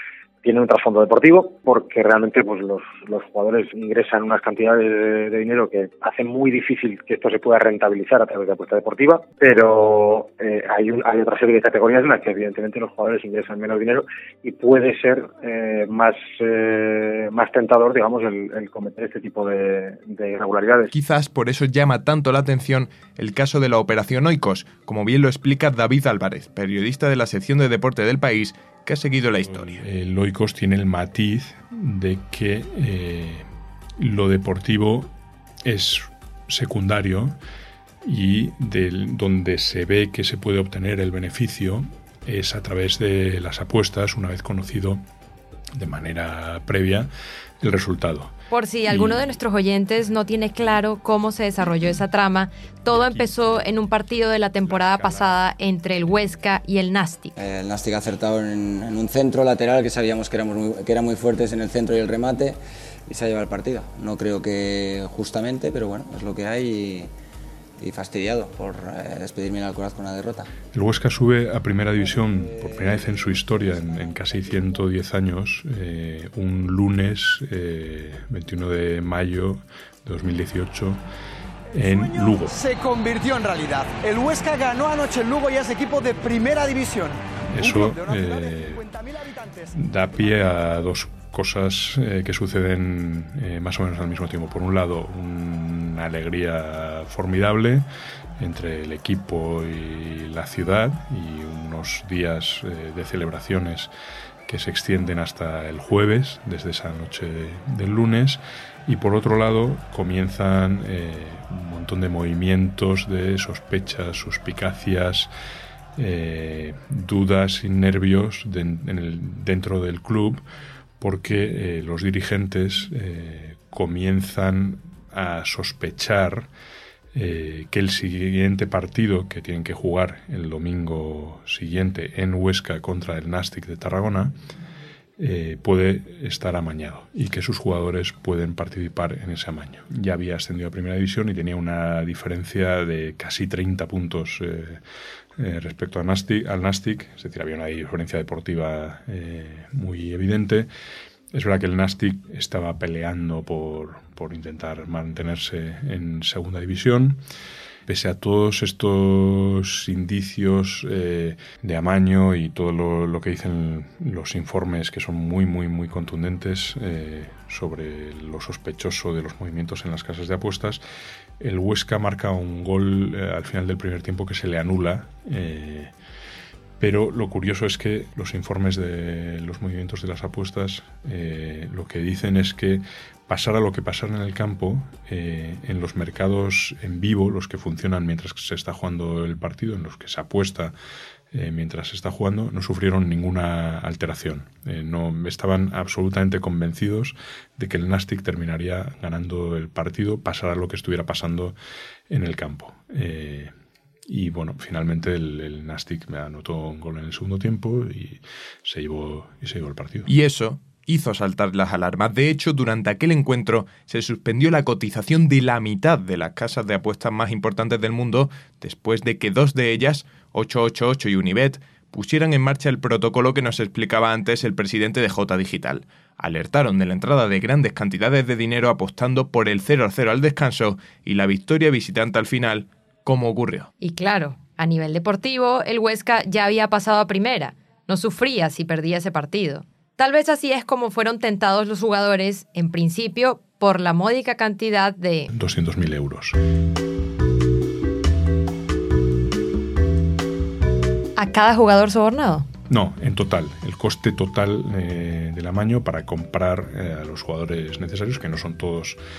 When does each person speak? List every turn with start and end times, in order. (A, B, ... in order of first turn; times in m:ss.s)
0:00.4-0:20.9 A
0:20.9-0:29.8 B
0:29.3-0:33.4 C
0:34.0-0:35.1 C
0:35.6-0:37.4 C
0:38.0-0:45.0 C
0:45.8-0:47.1 C
0:47.6-0:48.3 C
0:48.5-0:57.3 D
0:48.9-0:49.2 C
0:52.9-0:53.8 C
0:54.6-0:55.4 C
0:57.4-1:07.1 E
1:07.8-1:10.5 E
1:10.7-1:21.0 C
1:11.9-1:14.3 E
1:21.7-1:22.6 C
1:22.0-1:28.2 F
1:27.5-1:28.8 C
1:28.8-1:29.6 F
1:29.7-1:37.8 C
1:38.4-1:43.9 C
1:44.5-1:55.3 C
1:56.0-2:00.4 C
2:01.0-2:06.5 C
2:07.1-2:14.3 C
2:15.2-2:24.8 C
2:25.4-2:30.7 C
2:31.3-2:37.2 C
2:37.9-2:50.8 C
2:51.4-2:55.9 C
2:56.8-3:10.7 C
3:11.3-3:21.6 C
3:22.1-3:23.5 C
3:24.1-3:30.1 C
3:30.0-3:53.7 B
3:53.8-4:05.3 D
4:05.3-4:06.4 C
4:11.2-4:12.5 D
4:12.7-4:19.0 C